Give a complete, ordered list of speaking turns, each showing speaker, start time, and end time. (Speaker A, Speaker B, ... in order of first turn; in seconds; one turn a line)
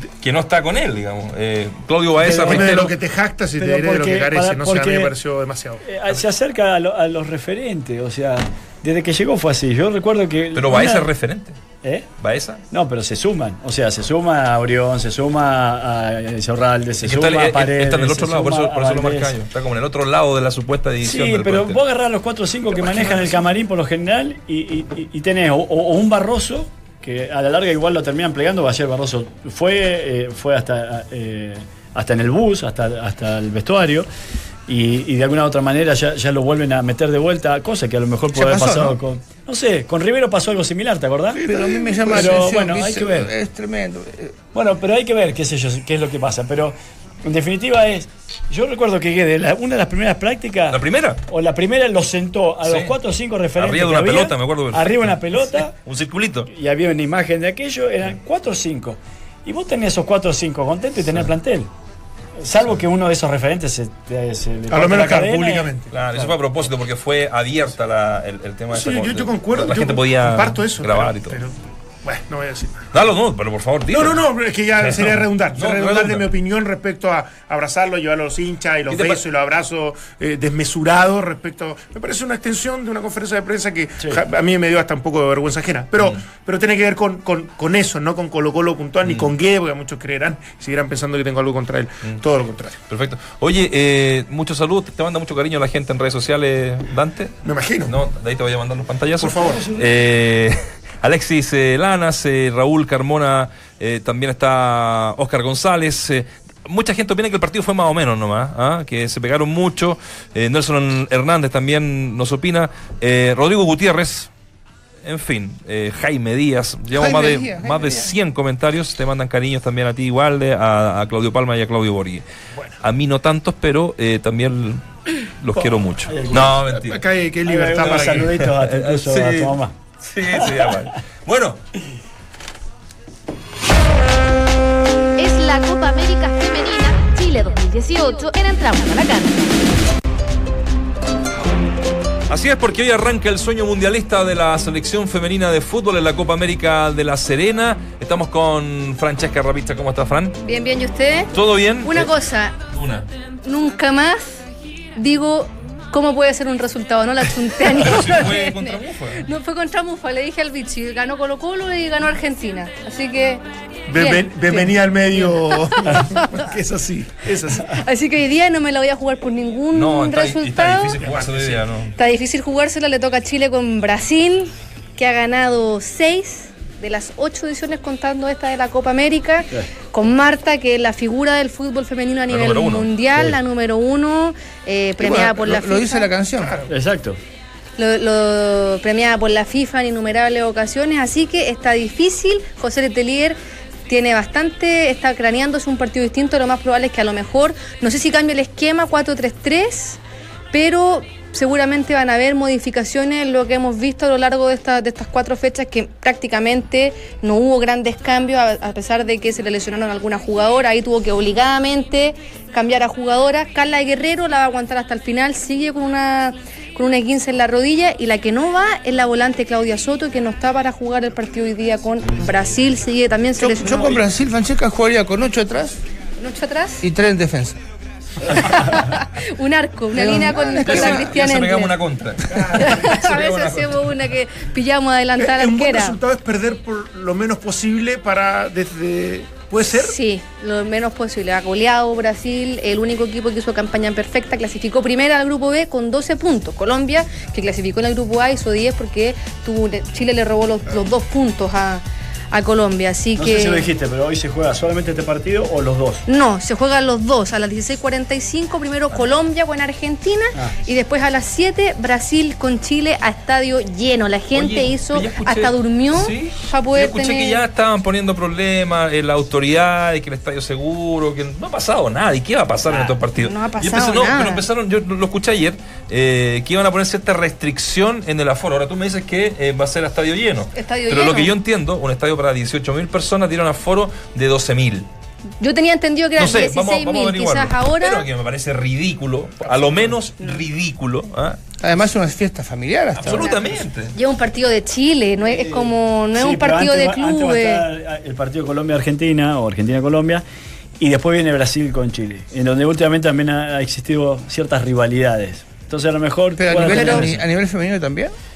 Speaker A: 0.2-2.9
Speaker B: 2.2-2.9
Speaker C: 2.3-5.8
Speaker B: 3.6-5.1
Speaker B: 5.8-11.1
Speaker A: 10.6-11.6
Speaker A: 12.2-12.6
Speaker B: 12.7-19.3
Speaker A: 17.0-21.8
Speaker B: 21.0-34.1
Speaker A: 22.8-23.2
Speaker B: 34.7-43.3
Speaker D: 38.3-39.0
Speaker D: 41.3-44.4
Speaker B: 44.5-55.7
Speaker A: 50.7-51.2
Speaker A: 52.6-53.0
Speaker A: 53.5-56.5
Speaker B: 56.5-61.7
Speaker B: 62.4-66.3
Speaker C: 64.7-65.9
Speaker A: 65.9-71.4
Speaker C: 68.7-72.9
Speaker A: 72.9-74.2
Speaker C: 73.9-92.7
Speaker A: 74.8-76.3
Speaker A: 78.9-79.2
Speaker A: 92.9-114.3
Speaker C: 97.4-97.9
Speaker C: 99.2-99.7
Speaker A: 115.0-122.2
Speaker D: 116.9-118.1
Speaker A: 122.8-127.0
Speaker C: 125.5-128.3
Speaker B: 126.1-126.5
Speaker B: 127.5-129.7
Speaker A: 127.9-131.6
Speaker B: 130.4-130.7
Speaker E: 135.2-139.6
Speaker A: 142.3-150.4
Speaker F: 150.4-151.3
Speaker A: 151.3-152.1
Speaker F: 151.8-152.5
Speaker A: 152.7-153.1
Speaker F: 153.4-154.4
Speaker F: 154.9-163.4
Speaker A: 157.6-159.2
Speaker C: 163.9-167.7
Speaker F: 163.9-164.8
Speaker F: 165.3-166.5
Speaker F: 167.7-171.0
Speaker A: 169.7-171.9
Speaker C: 171.0-171.6
Speaker F: 172.0-186.1
Speaker A: 182.3-182.9
Speaker D: 185.0-186.6
Speaker C: 186.4-186.7
Speaker B: 186.7-187.2
Speaker F: 187.8-193.4
Speaker F: 193.9-200.0
Speaker F: 200.5-224.1
Speaker D: 223.4-225.8
Speaker F: 226.2-226.8
Speaker D: 226.8-227.6
Speaker F: 228.3-231.8
Speaker D: 229.9-231.1
Speaker A: 230.1-233.8
Speaker C: 232.3-232.7
Speaker F: 232.5-236.0
Speaker C: 235.2-240.0
Speaker F: 239.7-253.7
Speaker B: 253.2-256.0
Speaker F: 256.1-267.4
Speaker A: 264.3-284.9
Speaker F: 273.1-274.4
Speaker F: 280.6-281.4
Speaker F: 285.4-288.1
Speaker A: 286.2-291.4
Speaker C: 289.5-289.9
Speaker D: 291.6-293.4
Speaker A: 292.9-293.9
Speaker F: 293.1-297.6
Speaker B: 295.2-300.2
Speaker B: 300.8-307.1
Speaker D: 306.4-308.1
Speaker F: 306.7-307.0